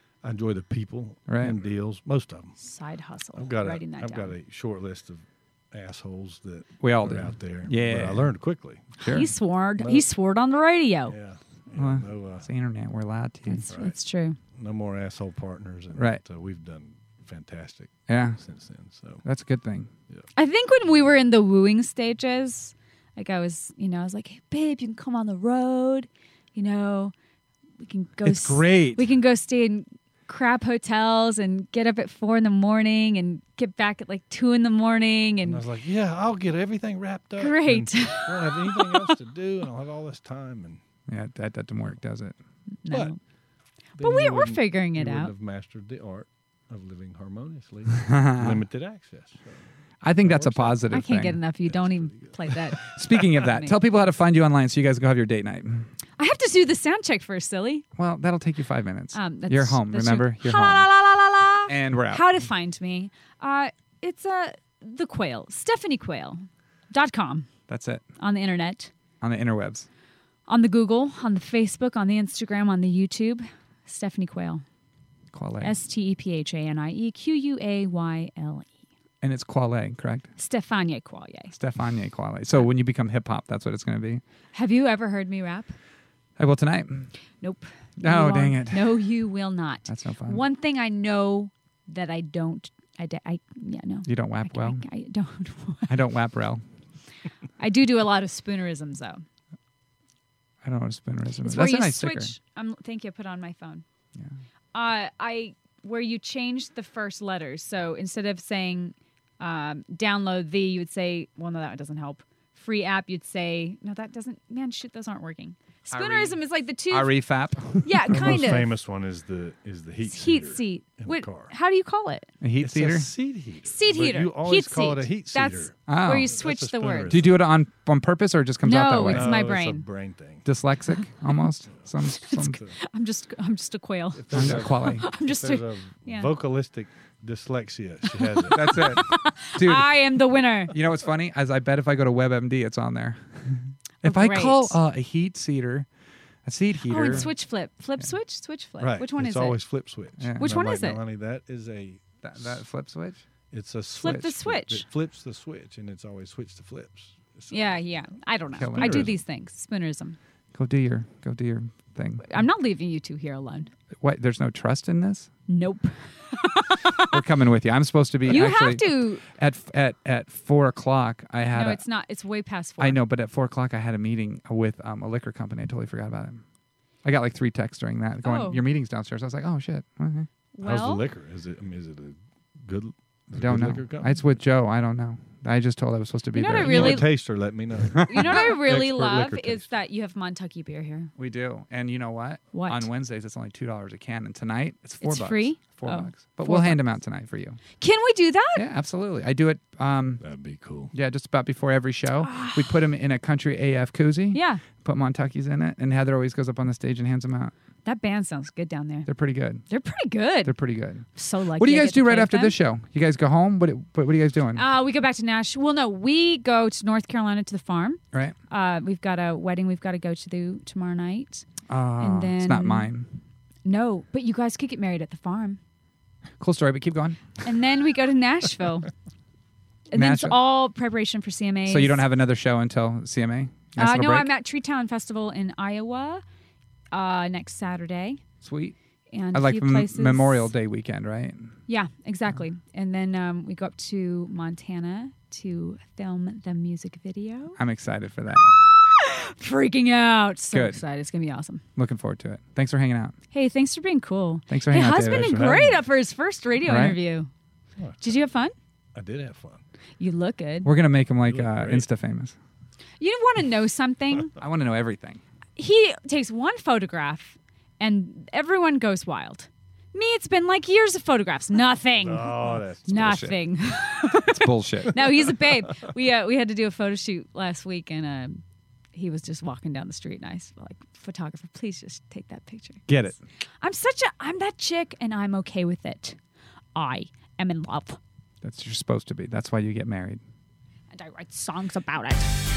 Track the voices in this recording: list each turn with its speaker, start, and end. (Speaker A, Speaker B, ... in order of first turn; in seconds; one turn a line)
Speaker A: 0.2-2.5
Speaker B: 1.3-1.6
Speaker C: 2.6-4.3
Speaker A: 3.4-8.9
Speaker B: 6.8-8.3
Speaker C: 9.0-11.2
Speaker B: 9.0-9.3
Speaker A: 9.8-10.1
Speaker A: 11.1-12.4
Speaker B: 11.7-13.7
Speaker C: 13.5-14.4
Speaker A: 13.7-13.9
Speaker A: 14.5-19.2
Speaker B: 15.9-16.2
Speaker B: 18.1-18.4
Speaker B: 19.2-19.9
Speaker C: 20.4-27.1
Speaker C: 27.8-35.6
Speaker B: 28.2-29.1
Speaker A: 35.4-40.8
Speaker C: 37.4-39.1
Speaker B: 41.1-42.4
Speaker C: 42.8-43.2
Speaker A: 42.9-43.1
Speaker C: 44.0-45.3
Speaker A: 44.0-49.6
Speaker B: 48.0-48.6
Speaker B: 50.0-51.4
Speaker A: 50.2-51.0
Speaker C: 50.9-53.8
Speaker A: 51.6-52.7
Speaker B: 52.8-55.9
Speaker C: 56.2-57.9
Speaker B: 58.0-60.9
Speaker C: 59.1-67.5
Speaker B: 61.7-62.2
Speaker B: 67.7-68.0
Speaker C: 68.2-68.9
Speaker B: 69.2-69.9
Speaker C: 70.5-74.6
Speaker B: 75.3-75.7
Speaker C: 75.6-78.7
Speaker B: 79.2-80.3
Speaker C: 80.4-81.5
Speaker B: 81.5-84.2
Speaker C: 84.5-85.7
Speaker B: 86.4-87.1
Speaker C: 87.4-96.0
Speaker B: 88.0-88.9
Speaker B: 89.9-90.4
Speaker B: 94.0-94.8
Speaker B: 95.9-96.6
Speaker C: 97.6-99.2
Speaker B: 100.6-102.3
Speaker C: 101.4-103.8
Speaker C: 104.7-117.2
Speaker B: 115.9-118.5
Speaker C: 117.8-118.7
Speaker A: 118.1-121.5
Speaker C: 120.0-122.3
Speaker B: 122.4-123.1
Speaker A: 122.6-127.4
Speaker C: 123.7-127.2
Speaker B: 125.9-126.3
Speaker B: 127.1-129.4
Speaker C: 128.6-129.8
Speaker A: 129.0-130.4
Speaker B: 130.4-132.6
Speaker C: 132.0-136.3
Speaker A: 132.4-132.7
Speaker A: 134.2-138.8
Speaker B: 134.3-135.1
Speaker C: 138.2-140.7
Speaker B: 138.5-139.9
Speaker B: 140.7-145.9
Speaker C: 144.0-144.8
Speaker B: 146.4-147.3
Speaker C: 146.9-149.6
Speaker A: 148.8-152.6
Speaker B: 150.2-150.5
Speaker C: 150.3-151.0
Speaker B: 152.2-153.2
Speaker A: 153.5-157.6
Speaker C: 154.0-154.8
Speaker C: 157.5-160.2
Speaker B: 158.6-159.1
Speaker A: 158.7-159.1
Speaker B: 160.5-162.3
Speaker C: 162.2-163.7
Speaker B: 164.0-165.3
Speaker C: 165.5-167.2
Speaker B: 167.1-171.8
Speaker C: 168.3-169.2
Speaker C: 171.5-173.0
Speaker B: 172.8-176.4
Speaker B: 177.0-180.3
Speaker C: 178.2-178.6
Speaker C: 180.6-181.1
Speaker A: 180.6-184.2
Speaker B: 183.4-187.1
Speaker C: 186.3-187.1
Speaker A: 186.6-189.7
Speaker B: 188.0-188.4
Speaker C: 188.1-191.1
Speaker B: 191.2-197.6
Speaker C: 192.5-192.9
Speaker C: 195.0-196.8
Speaker C: 197.8-198.6
Speaker B: 198.6-200.2
Speaker A: 200.2-200.9
Speaker B: 200.9-207.5
Speaker C: 202.2-202.8
Speaker C: 204.3-204.6
Speaker C: 207.8-209.1
Speaker B: 209.1-209.6
Speaker C: 209.7-210.5
Speaker B: 210.4-211.1
Speaker C: 211.2-212.6
Speaker B: 211.6-214.6
Speaker C: 214.6-221.4
Speaker B: 221.7-223.1
Speaker C: 222.0-222.9
Speaker C: 223.6-225.6
Speaker B: 226.4-227.4
Speaker C: 227.4-228.9
Speaker C: 229.9-232.0
Speaker B: 229.9-230.4
Speaker B: 231.7-234.3
Speaker C: 233.8-236.2
Speaker C: 236.9-238.2
Speaker B: 238.4-238.8
Speaker C: 239.1-240.5
Speaker B: 239.3-241.5
Speaker C: 241.7-247.6
Speaker B: 247.6-248.6
Speaker C: 248.8-251.6
Speaker B: 250.5-250.8
Speaker B: 251.8-253.2
Speaker C: 253.3-257.3
Speaker B: 254.5-255.5
Speaker A: 255.1-255.8
Speaker B: 256.6-257.0
Speaker A: 257.8-258.2
Speaker C: 258.0-258.5
Speaker A: 258.9-259.6
Speaker C: 260.0-260.7
Speaker B: 260.6-262.4
Speaker A: 261.2-261.9
Speaker C: 263.0-264.4
Speaker B: 264.4-265.2
Speaker C: 265.6-278.4
Speaker A: 272.0-273.2
Speaker B: 272.9-273.4
Speaker B: 274.1-275.3
Speaker C: 278.9-282.9
Speaker B: 282.9-283.2
Speaker C: 283.6-286.2
Speaker C: 286.7-288.0
Speaker B: 288.4-290.2
Speaker C: 290.9-292.3